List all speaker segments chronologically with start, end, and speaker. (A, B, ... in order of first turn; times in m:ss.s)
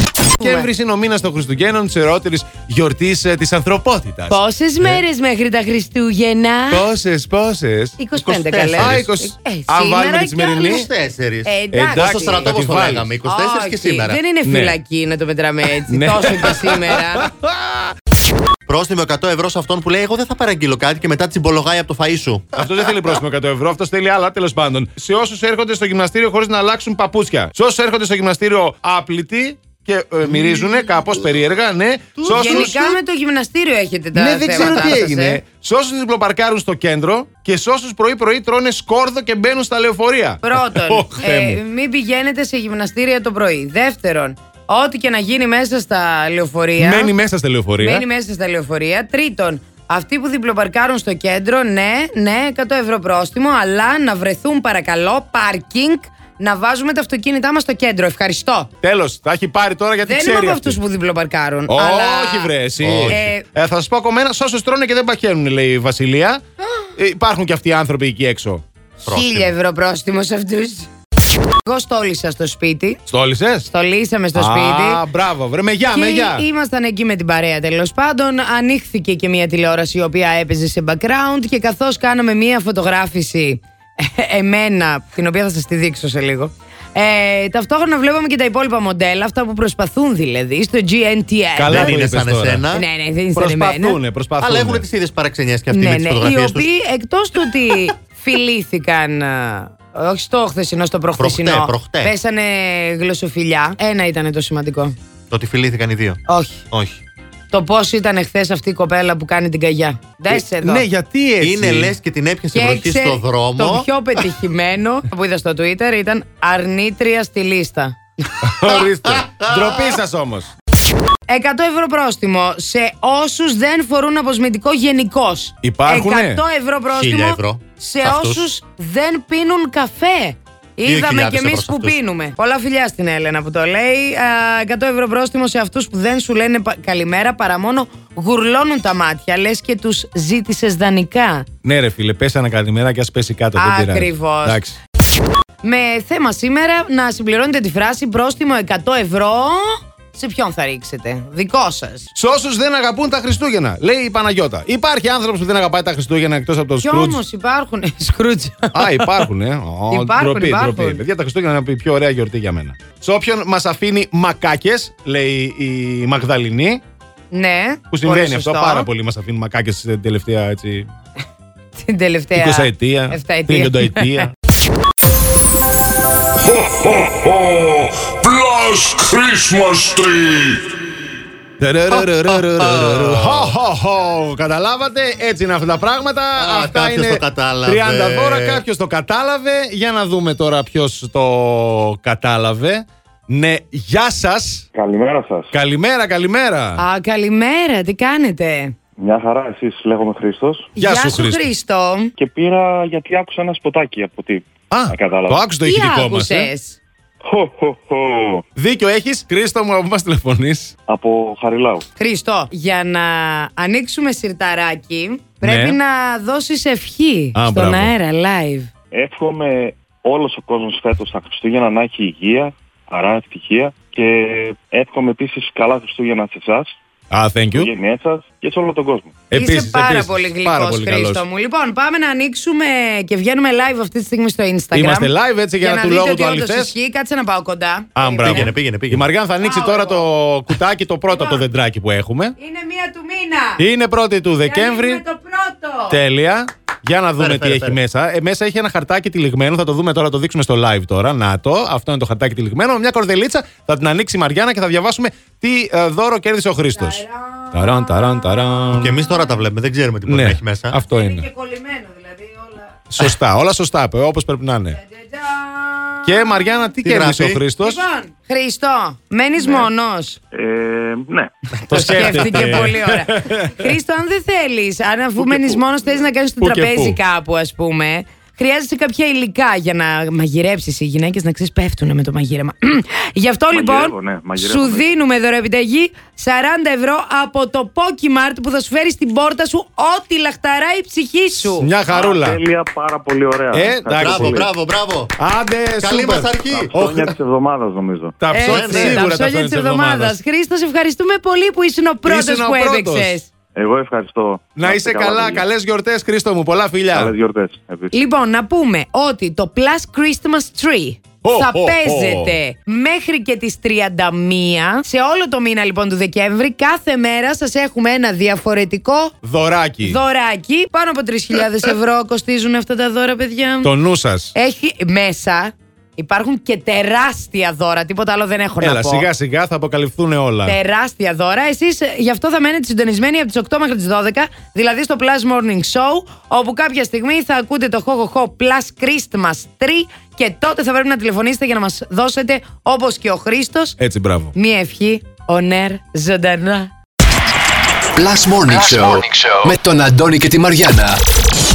0:00.4-0:00.7 A
0:00.4-0:05.0 B
0:04.3-0:06.8 A
0:06.7-0:10.9 B
0:08.0-0:10.7 A
0:10.4-0:14.2 C
0:11.4-0:12.5 A
0:11.7-0:13.1 B
0:13.2-0:17.3 A
0:14.4-0:14.8 B
0:15.9-0:17.9 B
0:18.7-0:22.5 C
0:22.5-0:33.0 B
0:32.2-0:35.4 A
0:32.2-0:32.7 C
0:34.1-0:41.6 B
0:40.4-0:47.1 A
0:46.8-0:48.0 B
0:47.8-0:58.7 A
0:58.8-1:00.8 B
1:00.0-1:02.5 A
1:01.7-1:06.4 B
1:02.8-1:03.2 C
1:03.1-1:03.4 A
1:07.0-1:08.6 B
1:09.0-1:10.9 A
1:09.0-1:09.5 C
1:11.6-1:13.0 A
1:13.1-1:13.6 B
1:13.6-1:15.0 A
1:14.3-1:16.4 B
1:15.9-1:32.0 A
1:31.6-1:32.6 B
1:31.7-1:32.8 C
1:32.7-1:34.0 A
1:33.3-1:34.8 B
1:34.4-1:36.7 C
1:35.7-1:44.9 A
1:41.2-1:42.1 C
1:45.3-1:46.2 C
1:46.3-1:46.6 A
1:46.7-1:47.0 C
1:47.5-1:50.8 A
1:50.3-1:51.9 B
1:51.4-1:53.9 C
1:52.5-1:58.3 A
1:58.4-2:00.5 B
1:59.2-1:59.9 C
2:01.3-2:21.4 A
2:05.6-2:06.4 B
2:06.9-2:08.4 C
2:10.8-2:12.0 C
2:21.6-2:24.8 B
2:23.5-2:24.6 A
2:25.6-2:32.1 A
2:32.1-2:37.2 B
2:36.8-2:39.1 A
2:38.7-2:46.8 B
2:39.9-2:41.0 A
2:47.3-2:48.9 A
2:47.9-2:50.9 B
2:51.8-2:54.3 A
2:52.3-2:54.3 B
2:59.5-3:00.2 D
3:01.6-3:14.6 B
3:01.9-3:03.5 C
3:06.4-3:08.6 C
3:14.7-3:15.5 E
3:15.5-3:16.8 B
3:16.8-3:18.7 A
3:19.0-3:20.7 E
3:20.8-3:21.4 B
3:20.8-3:22.1 A
3:22.2-3:25.4 E
3:24.7-3:26.5 B
3:25.6-3:26.8 A
3:27.2-3:28.4 E
3:28.6-3:30.7 B
3:30.9-3:31.8 E
3:32.0-3:38.7 A
3:35.4-3:35.8 B
3:37.3-3:37.9 B
3:38.9-3:46.7 E
3:47.1-3:47.7 B
3:47.5-3:49.1 E
3:49.3-3:51.2 B
3:49.3-3:58.5 A
3:54.7-3:56.7 B
3:58.0-4:02.4 B
3:58.2-3:59.0 C
3:59.4-4:00.0 A
4:01.1-4:01.4 A
4:02.4-4:03.6 A
4:03.6-4:05.0 B
4:04.4-4:06.0 A
4:05.9-4:19.0 B
4:07.2-4:07.8 C
4:16.7-4:19.4 A
4:18.7-4:20.8 C
4:20.0-4:21.2 B
4:20.9-4:22.8 A
4:22.9-4:24.8 B
4:24.7-4:26.7 A
4:26.0-4:27.8 B
4:26.8-4:27.4 C
4:27.6-4:30.2 A
4:30.3-4:32.2 E
4:31.7-4:33.7 B
4:31.7-4:51.7 A
4:35.2-4:35.6 B
4:36.4-4:37.0 B
4:43.5-4:44.9 E
4:51.3-4:52.4 B
4:51.9-4:54.5 E
4:53.5-4:54.4 B
4:54.0-4:55.1 C
4:55.2-4:57.1 B
4:55.8-4:56.7 C
4:56.5-4:58.2 E
4:58.2-5:00.2 B
4:58.3-5:03.3 A
4:58.4-4:59.0 C
5:02.0-5:03.2 B
5:03.5-5:05.4 E
5:04.6-5:07.1 B
5:06.9-5:07.9 E
5:07.9-5:19.1 A
5:11.2-5:12.4 B
5:19.2-5:20.0 B
5:19.8-5:23.7 A
5:23.6-5:24.3 B
5:24.3-5:29.1 A
5:28.6-5:30.6 B
5:30.4-5:43.8 A
5:43.8-5:44.3 B
5:44.3-5:46.7 A
5:48.0-5:51.0 D